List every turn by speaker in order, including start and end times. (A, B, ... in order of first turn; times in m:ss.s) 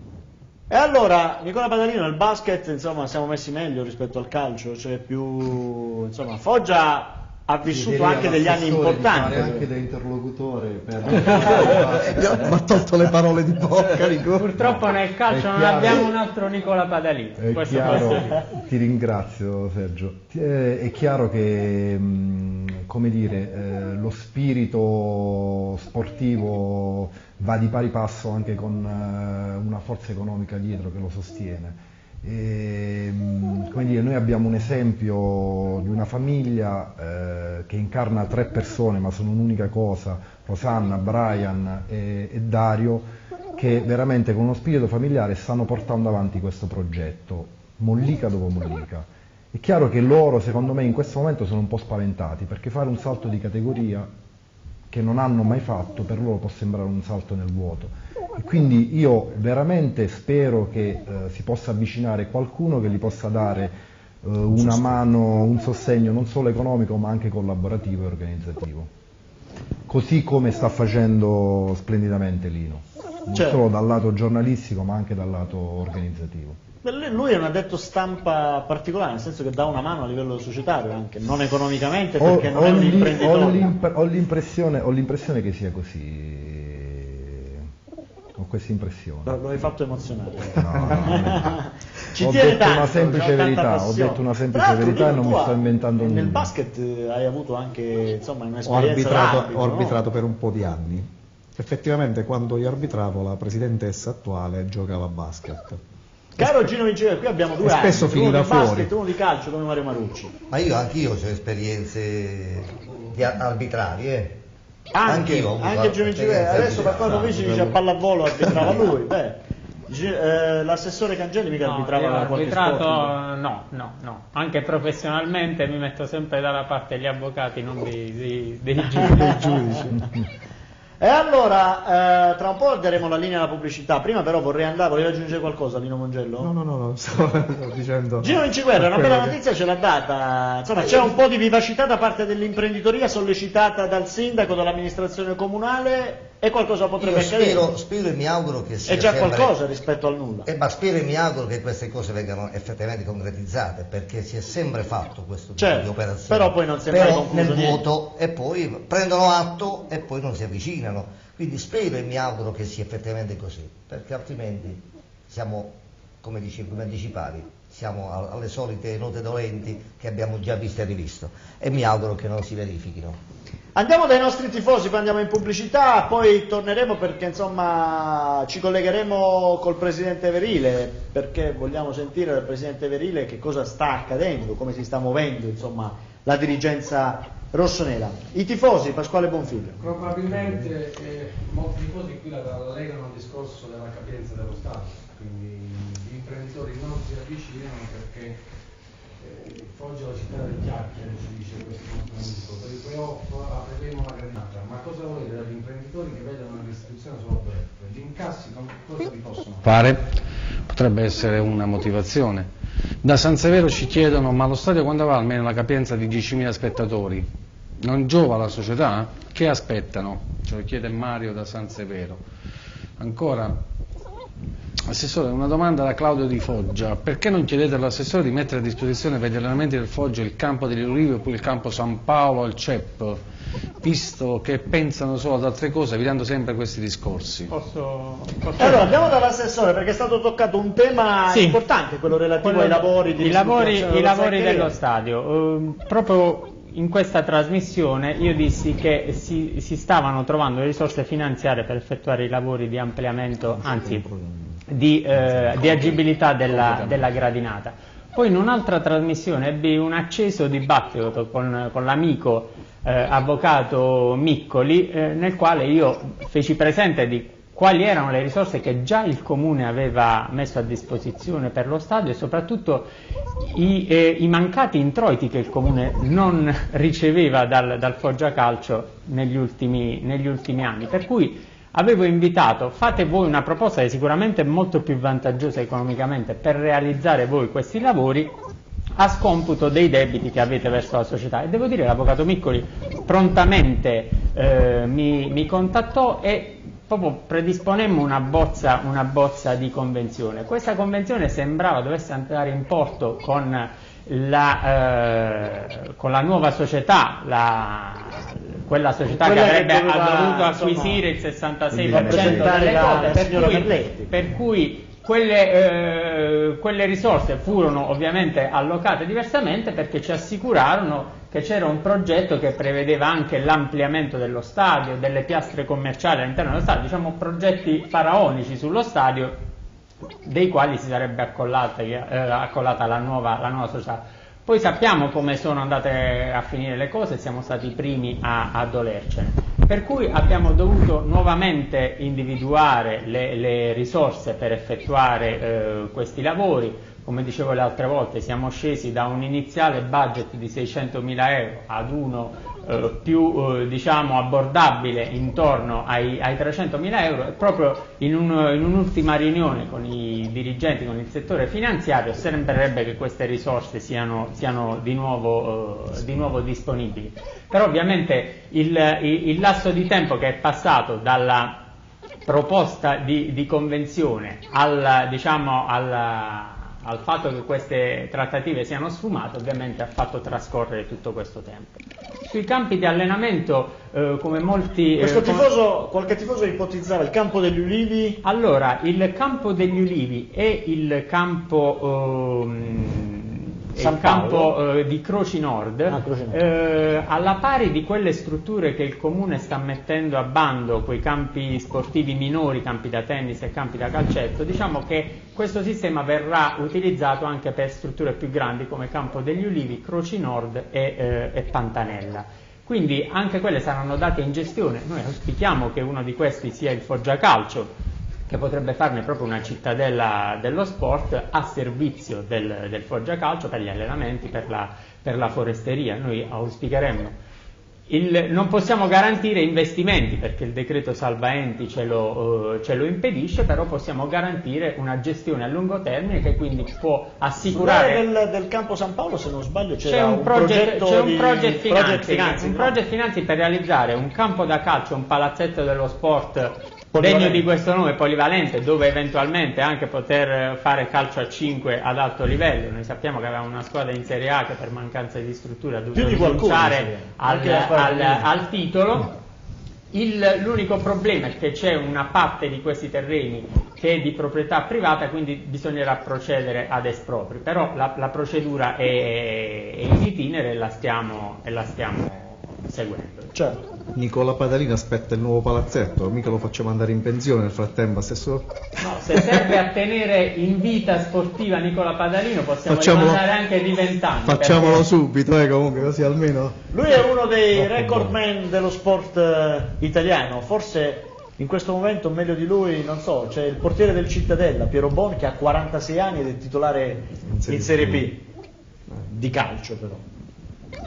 0:00.7-0:09.7 A
0:07.7-0:12.6 B
0:11.3-0:11.5 A
0:11.6-0:14.4 C
0:11.7-0:12.4 D
0:13.8-0:16.1 B
0:14.4-0:18.4 E
0:17.4-0:54.1 B
0:54.9-1:08.9 B
1:09.9-1:16.6 B
1:13.3-1:13.6 A
1:16.8-1:23.8 A
1:22.2-1:27.7 B
1:28.4-1:29.4 B
1:29.3-1:40.0 A
1:30.4-1:31.6 B
1:32.2-1:36.5 B
1:38.6-1:45.8 C
1:46.4-1:50.3 A
1:47.6-1:48.9 C
1:50.5-1:54.4 D
1:54.9-2:03.1 A
1:55.0-1:57.7 D
1:57.5-1:57.7 C
2:01.6-2:09.8 E
2:09.0-2:09.8 A
2:09.2-2:10.0 C
2:11.0-2:16.5 A
2:16.4-2:19.4 C
2:18.2-2:27.7 A
2:27.0-2:29.5 D
2:28.9-2:30.5 A
2:30.5-2:53.2 D
2:35.6-2:37.8 A
2:53.8-3:09.8 A
3:09.8-3:18.4 F
3:10.3-3:10.6 B
3:19.2-3:30.2 F
3:30.7-3:32.5 F
3:33.0-3:37.3 F
3:37.8-3:42.2 F
3:43.0-3:43.6 F
3:44.9-3:53.2 F
3:53.8-3:57.5 F
3:57.5-3:58.9 E
3:58.6-4:04.7 A
4:01.3-4:01.6 E
4:02.4-4:14.1 E
4:13.5-4:14.6 C
4:14.7-4:32.9 E
4:15.2-4:16.0 C
4:16.6-4:17.0 C
4:33.4-4:48.3 E
4:49.0-5:29.4 E
5:09.1-5:11.1 A
5:11.9-5:14.1 A
5:30.2-6:11.7 E
6:12.3-6:25.5 E
6:25.0-6:28.2 A
6:28.2-6:57.7 E
6:33.8-6:34.5 A
6:35.9-6:36.4 A
6:58.3-7:07.2 E
7:07.9-7:18.0 E
7:17.5-7:22.8 A
7:19.8-7:39.1 E
7:26.9-7:27.4 A
7:36.0-7:38.3 A
7:39.9-7:53.4 E
7:54.0-7:58.5 C
7:58.8-8:04.9 E
7:59.1-7:59.5 C
8:02.7-8:03.2 C
8:04.2-8:06.6 C
8:06.7-8:18.2 A
8:07.6-8:08.2 C
8:17.2-8:18.1 C
8:19.1-8:20.0 A